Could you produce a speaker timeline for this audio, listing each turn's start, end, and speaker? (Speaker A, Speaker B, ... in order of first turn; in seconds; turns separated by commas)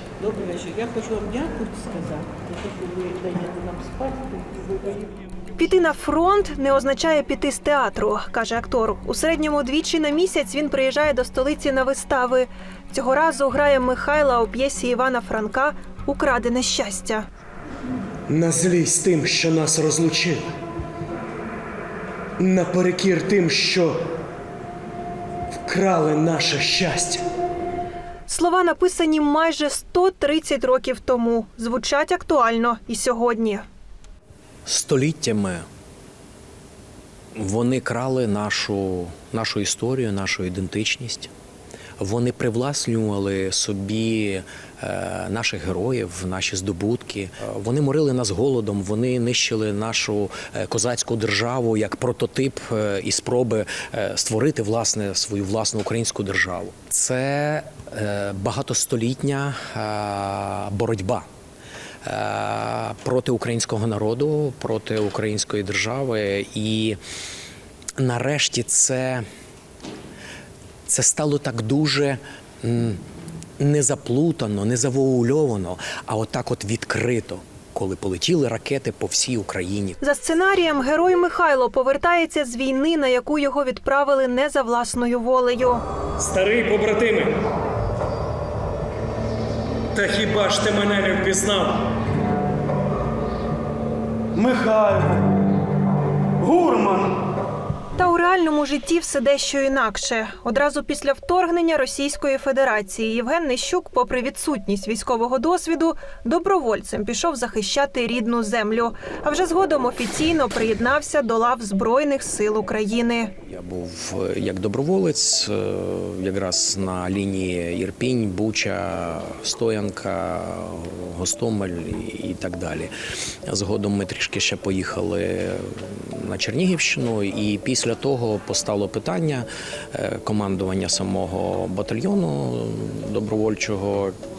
Speaker A: 0.2-5.1, Speaker B: 5.6-17.3, Speaker C: 18.3-20.4, Speaker C: 22.4-24.0, Speaker C: 25.5-27.2, Speaker B: 28.3-33.6, Speaker D: 34.6-35.6, Speaker D: 37.3-41.3, Speaker D: 42.0-61.2, Speaker D: 62.0-67.0, Speaker D: 68.0-69.2, Speaker D: 70.9-73.0, Speaker D: 73.6-80.0, Speaker B: 80.0-85.8, Speaker A: 86.2-87.3, Speaker A: 89.9-91.4, Speaker C: 90.0-91.8, Speaker C: 94.4-95.2, Speaker C: 96.4-97.1, Speaker B: 98.0-113.3, Speaker D: 113.5-122.9, Speaker D: 123.5-134.1